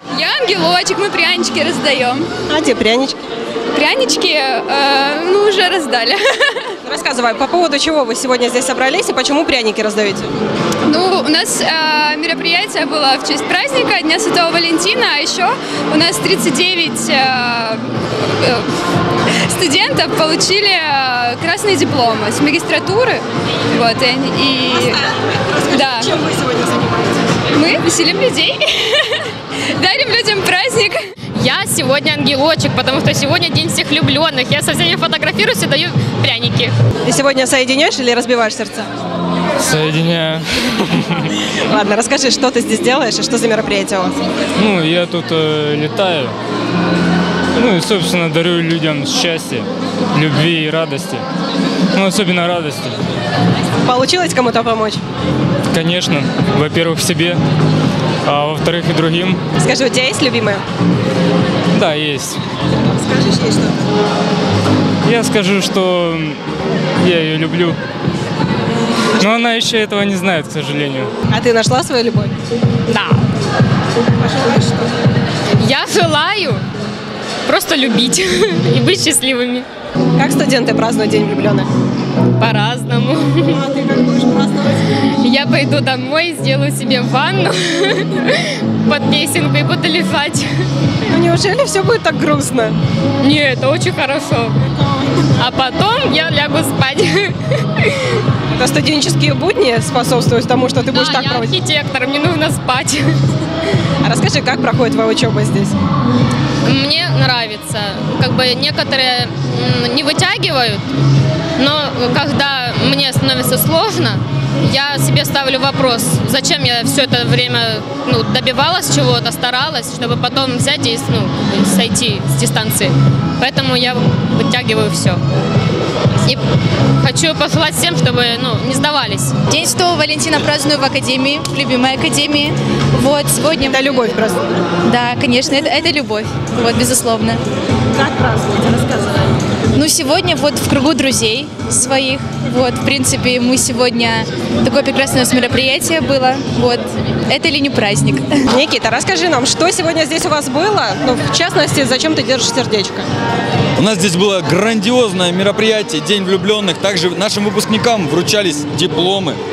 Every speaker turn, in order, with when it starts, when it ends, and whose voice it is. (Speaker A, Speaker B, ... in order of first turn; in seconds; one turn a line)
Speaker A: 0.1-2.3
Speaker B: 2.5-3.2
Speaker A: 3.7-6.8
Speaker B: 6.8-10.3
Speaker A: 10.8-18.7
Speaker A: 19.4-25.0
Speaker B: 24.7-27.4
Speaker A: 25.7-26.2
Speaker A: 27.5-31.1
Speaker C: 31.4-36.8
Speaker B: 37.0-38.9
Speaker D: 39.6-41.3
Speaker B: 41.7-44.2
Speaker D: 44.5-46.4
Speaker D: 47.5-51.2
Speaker D: 51.9-53.0
Speaker B: 53.8-55.0
Speaker D: 55.7-57.4
Speaker D: 58.2-59.4
Speaker B: 59.6-60.6
Speaker D: 61.7-62.4
Speaker B: 62.9-63.8
Speaker D: 65.0-66.4
Speaker D: 67.0-67.8
Speaker D: 69.2-71.1
Speaker B: 71.3-72.3
Speaker C: 72.9-73.3
Speaker B: 74.2-74.9
Speaker C: 75.6-76.6
Speaker C: 77.5-79.7
Speaker B: 80.2-81.7
Speaker C: 82.4-83.7
Speaker B: 83.5-84.8
Speaker C: 85.2-90.5
Speaker B: 91.0-92.8
Speaker C: 93.2-94.5
Speaker C: 95.3-98.2
Speaker B: 98.5-101.5
Speaker C: 100.8-103.3
Speaker B: 104.0-105.8
Speaker C: 106.6-110.8
Speaker C: 111.6-125.2
Speaker C: 127.0-129.3
Speaker E: 129.5-134.1
Speaker B: 133.7-134.6
Speaker E: 134.8-137.4
Speaker B: 137.9-139.3
Speaker E: 139.7-148.3
Speaker B: 148.5-153.1
Speaker F: 153.8-159.4